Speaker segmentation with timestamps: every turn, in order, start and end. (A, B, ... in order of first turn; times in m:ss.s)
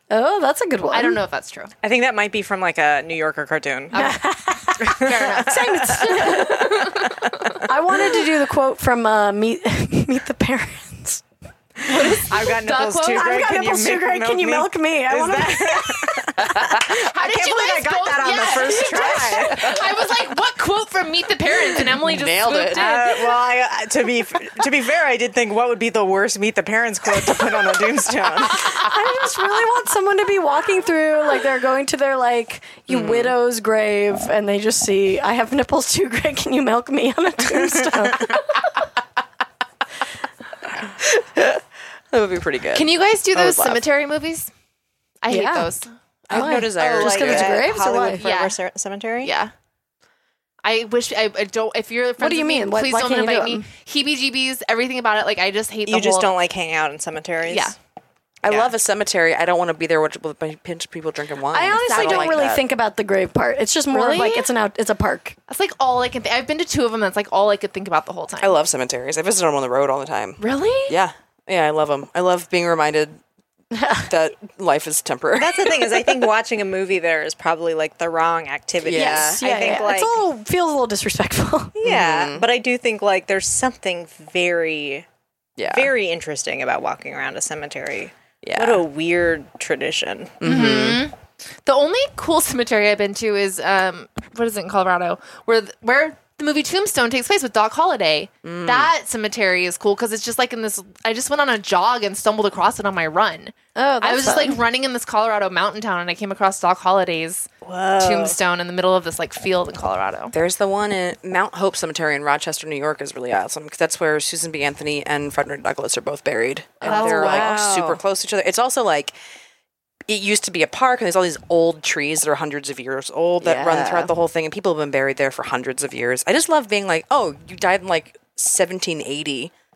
0:00.1-0:01.2 A
0:00.9-0:01.7 B
0:01.8-0:04.0 C
0:03.9-0:04.3 B
0:03.9-0:07.1 A
0:04.8-0:07.2 B
0:04.8-0:07.6 C
0:07.6-0:11.2 A
0:11.8-0:19.8 C
0:11.9-0:13.4 B
0:13.1-0:16.4 A
0:16.4-0:16.8 D
0:16.8-0:23.5 B
0:21.9-0:22.8 D
0:22.7-0:28.8 C
0:28.5-0:38.4 A
0:32.9-0:33.3 D
0:40.8-0:43.8 D
0:42.7-0:44.5 B
0:45.2-0:45.9 B
0:45.3-0:45.7 A
0:46.3-0:47.7 D
0:46.3-0:48.2 A
0:46.3-0:49.3 C
0:48.2-0:48.6 B
0:49.2-0:49.5 B
0:50.6-0:56.3 B
0:52.2-0:53.7 A
0:55.9-0:57.7 C
0:57.5-0:57.7 B
0:58.4-1:02.6 D
0:58.4-0:58.7 C
1:01.5-1:05.4 A
1:01.7-1:02.4 B
1:03.9-1:04.5 B
1:05.5-1:08.5 B
1:08.4-1:13.2 D
1:10.4-1:11.0 B
1:13.7-1:14.0 A
1:13.9-1:16.1 D
1:15.4-1:20.2 C
1:18.8-1:19.4 D
1:18.9-1:21.8 A
1:21.8-1:25.0 C
1:21.8-1:22.5 D
1:25.6-1:25.9 D
1:25.7-1:30.4 C
1:28.4-1:28.8 D
1:30.4-1:31.0 D
1:30.4-1:50.3 B
1:38.4-1:38.9 D
1:43.8-1:44.6 A
1:47.6-1:48.4 C
1:50.3-1:59.1 D
1:56.8-1:57.3 B
1:56.8-1:57.8 C
1:56.9-1:57.9 A
2:00.1-2:09.5 D
2:03.4-2:04.0 A